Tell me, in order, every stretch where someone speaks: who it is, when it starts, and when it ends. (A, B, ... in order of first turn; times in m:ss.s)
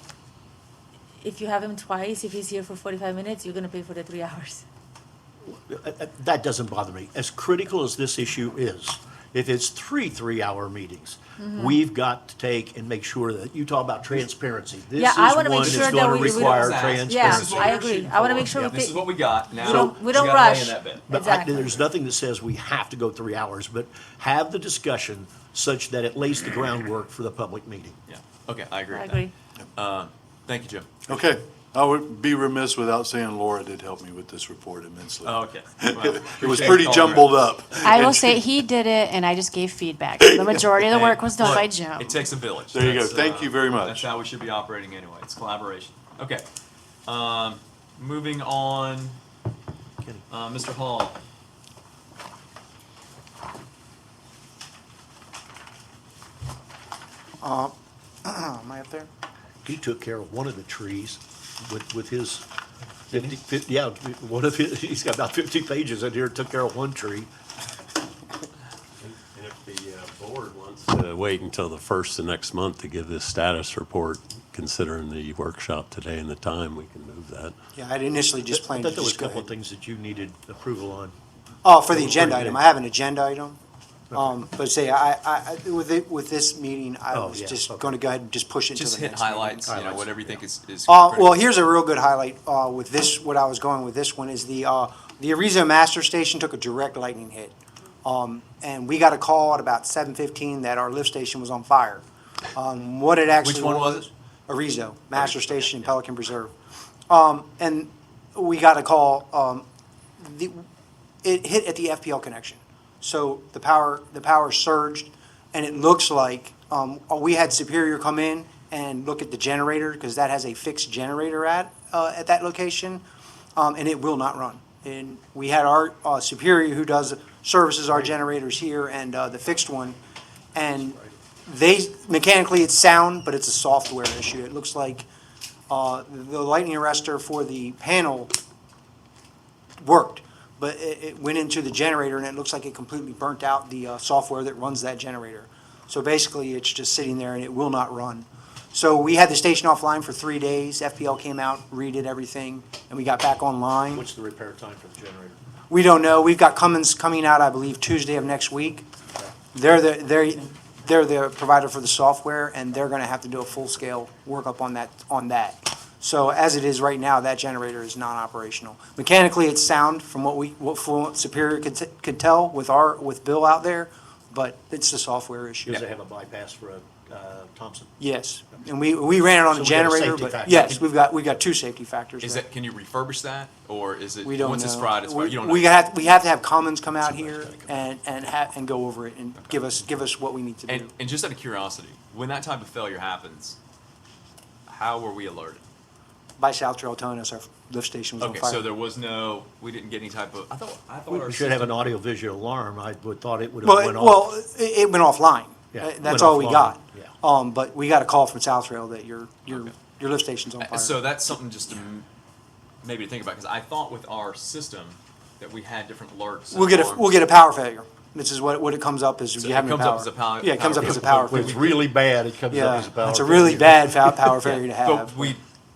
0:01.2-0:04.6 A
0:05.5-0:17.8 B
0:11.4-0:11.8 A
0:15.0-0:21.8 A
0:15.6-0:21.1 C
0:18.5-0:18.8 B
0:19.6-0:20.4 B
0:21.1-0:28.0 B
0:28.1-0:31.0 C
0:28.9-0:29.3 A
0:31.1-0:38.5 D
0:35.2-0:37.3 C
0:37.8-0:42.2 E
0:40.2-0:40.9 D
0:40.9-0:46.4 C
0:42.7-0:44.1 D
0:47.1-0:49.2 C
0:50.3-0:51.2 C
0:57.4-0:57.7 F
0:58.2-0:59.1 F
0:59.6-1:02.4 B
1:03.1-1:07.3 B
1:09.0-1:17.6 G
1:17.8-1:19.5 F
1:18.5-1:21.2 B
1:21.6-1:23.6 F
1:21.9-1:22.6 B
1:24.1-1:24.4 B
1:24.1-1:30.0 F
1:27.1-1:28.0 B
1:28.7-1:31.5 C
1:29.7-1:30.4 B
1:30.9-1:42.0 F
1:42.5-1:46.5 F
1:43.4-1:44.1 C
1:45.2-1:45.8 C
1:47.1-1:49.6 F
1:50.2-1:50.6 F
1:51.2-2:03.0 F
2:03.6-2:10.0 F
2:10.6-2:15.1 F
2:10.8-2:11.1 B
2:15.7-2:18.3 F
2:19.8-2:34.1 F
2:33.9-2:35.4 B
2:35.7-2:38.9 F
2:39.5-2:55.8 F
2:55.7-2:57.9 B
2:58.0-3:02.4 F
2:59.5-3:00.8 B
3:02.2-3:05.8 C
3:04.2-3:10.9 F
3:06.9-3:07.8 B
3:10.7-3:13.6 C
3:14.7-3:15.6 C
3:16.4-3:18.7 F
3:18.2-3:21.8 C
3:21.1-3:24.3 B
3:23.6-3:31.1 F
3:25.7-3:27.1 B
3:29.5-3:29.7 C
3:30.6-3:32.1 C
3:32.8-3:37.2 C
3:36.5-3:41.8 F
3:39.4-3:41.8 C
3:40.7-3:44.2 B
3:42.5-3:45.4 F
3:44.4-3:45.4 C